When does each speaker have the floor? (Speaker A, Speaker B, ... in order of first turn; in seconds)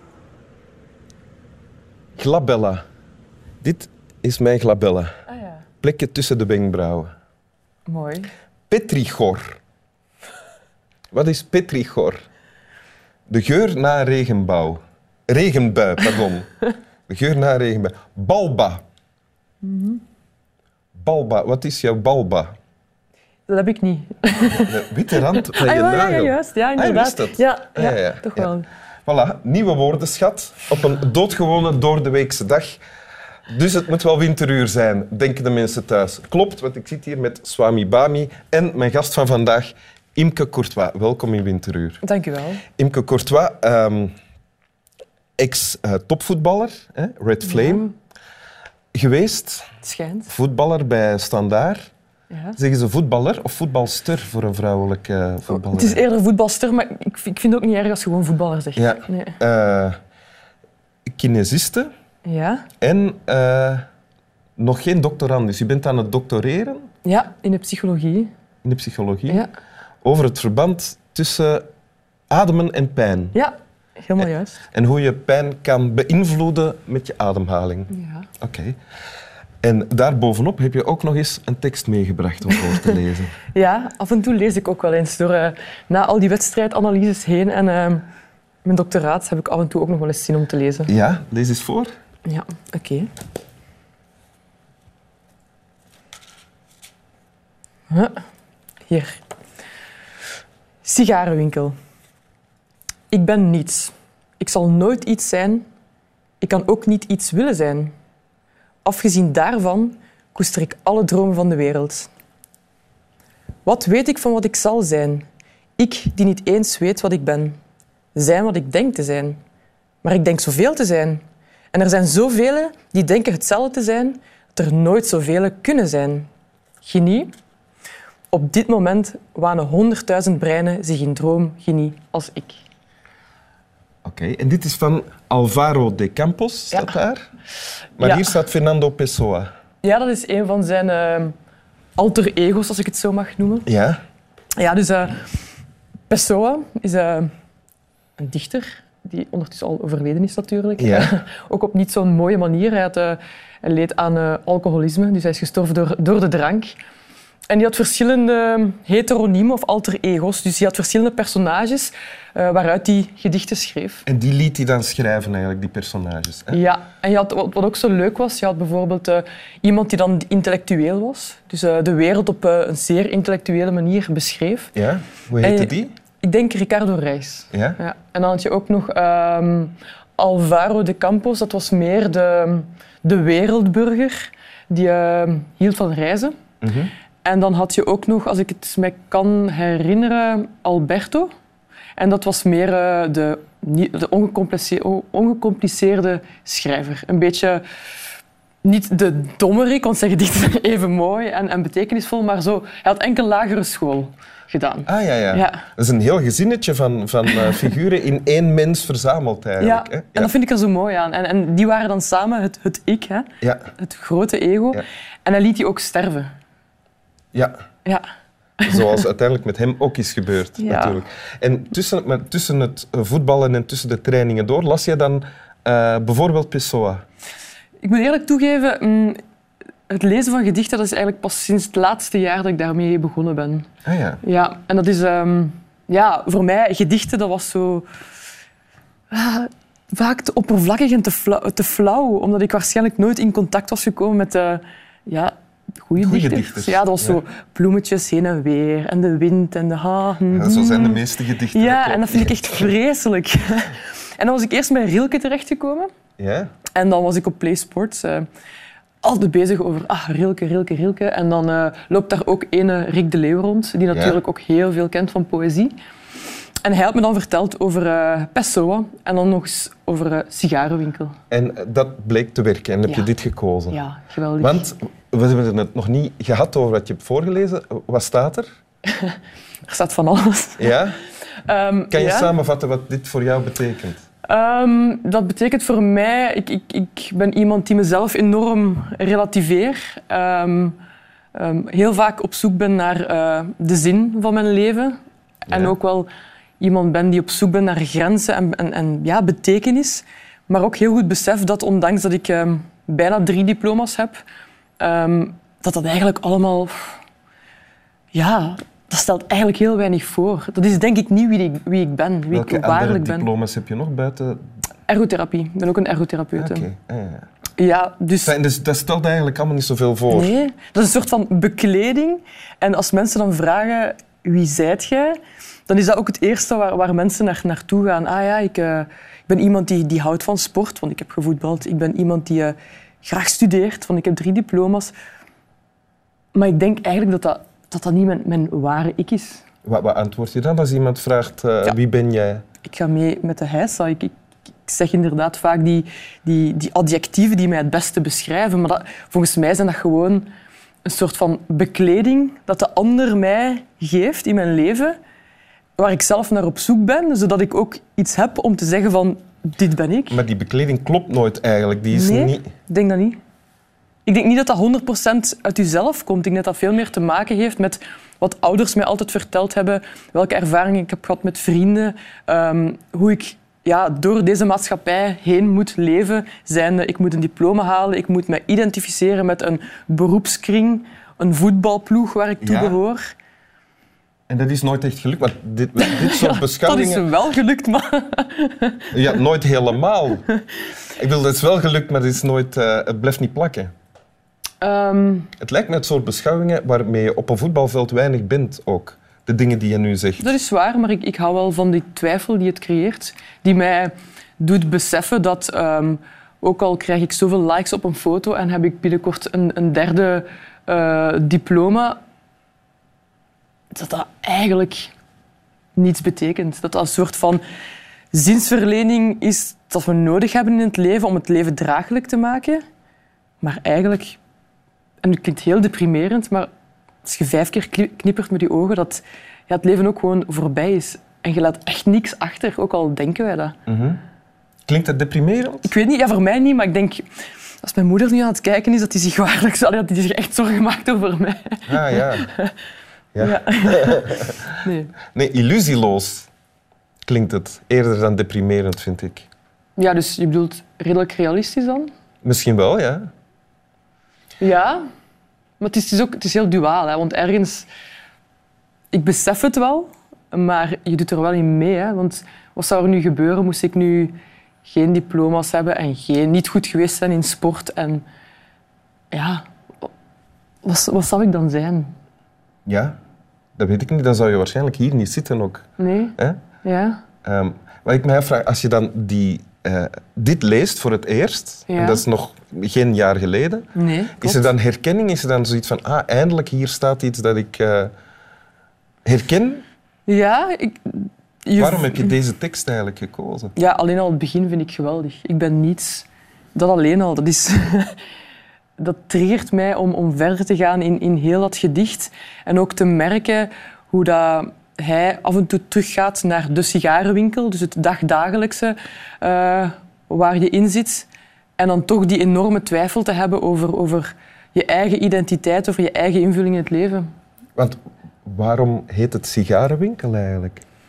Speaker A: 2.2-2.8, 3.6-5.1, 5.8-7.1, 8.7-9.6, 11.1-12.2, 13.3-16.5, 17.1-18.8, 20.9-22.5, 24.6-28.5, 29.1-32.8, 33.5-42.0, 42.8-44.1, 45.4-47.9, 48.9-49.7, 50.3-51.8, 52.6-56.0, 58.8-60.0, 61.0-61.9, 62.8-63.8, 64.6-66.9, 68.6-69.4, 70.0-71.7, 72.3-73.3, 74.2-78.8, 79.6-83.3, 90.9-91.9, 134.0-137.2, 138.0-139.5, 143.7-144.0, 150.8-151.1, 164.1-166.6, 174.8-175.9, 177.5-177.8, 186.6-186.9, 204.8-210.3, 213.4-213.7, 218.7-227.0, 233.8-234.2, 245.9-247.2, 250.3-252.7, 256.2-256.5, 263.9-264.2, 271.3-273.8, 274.4-278.5, 280.6-281.0, 281.9-284.0, 295.5-295.8, 312.3-314.5, 316.4-317.3, 318.2-320.3, 339.6-342.4, 360.1-362.5, 382.4-382.8, 384.3-387.1, 388.9-390.2, 391.0-393.7, 395.4-400.3, 433.7-434.0, 434.7-435.7, 441.7-442.3, 443.1-444.5, 445.1-446.3, 447.1-449.3, 452.2-453.1, 472.6-472.9, 473.6-475.6, 477.2-487.9, 489.0-489.6, 491.6-493.5, 517.5-520.6
Speaker B: 5.3-5.6, 7.9-8.3, 19.6-20.0, 23.5-28.7, 42.0-42.6, 47.4-47.9, 49.8-50.3, 52.3-52.6, 55.5-59.4, 62.2-62.7, 67.0-68.3, 73.3-74.6, 77.9-78.3, 82.5-83.0, 83.5-88.0, 88.6-90.9, 92.2-93.1, 97.9-98.2, 98.9-99.2, 100.8-101.7, 103.1-105.6, 106.4-107.9, 108.8-112.1, 113.6-115.2, 115.8-117.5, 118.1-119.4, 120.0-121.2, 121.7-126.3, 126.8-127.3, 128.3-132.6, 138.0-138.4, 139.8-141.3, 142.0-143.7, 144.6-145.2, 146.1-147.3, 148.2-156.7, 157.5-164.0, 166.5-174.7, 175.4-186.3, 187.2-191.3, 192.0-197.6, 198.6-205.7, 209.6-216.3, 218.6-219.0, 220.6-221.0, 227.8-229.2, 229.9-233.7, 234.2-237.8, 239.1-255.9, 256.8-258.2, 259.0-265.7, 266.6-271.1, 273.7-274.7, 278.9-280.8, 281.4-282.3, 284.3-290.8, 291.3-296.1, 296.6-304.2, 304.8-307.0, 308.1-313.3, 314.9-316.7, 317.6-318.3, 320.1-334.9, 336.3-339.4, 342.6-344.1, 344.6-350.3, 350.8-354.9, 355.8-360.2, 361.9-363.2, 364.1-383.0, 385.8-388.9, 394.6-395.3, 400.2-412.0, 413.7-414.9, 415.8-417.4, 418.1-422.6, 423.4-424.2, 425.0-426.5, 427.0-433.5, 435.6-437.1, 437.6-442.5, 443.2-444.9, 449.8-451.9, 454.4-454.8, 455.6-457.7, 458.9-464.1, 464.6-468.0, 469.1-469.9, 470.6-471.9, 475.8-477.0, 481.7-482.0, 483.7-484.5, 490.1-492.1, 493.5-497.9, 498.8-517.1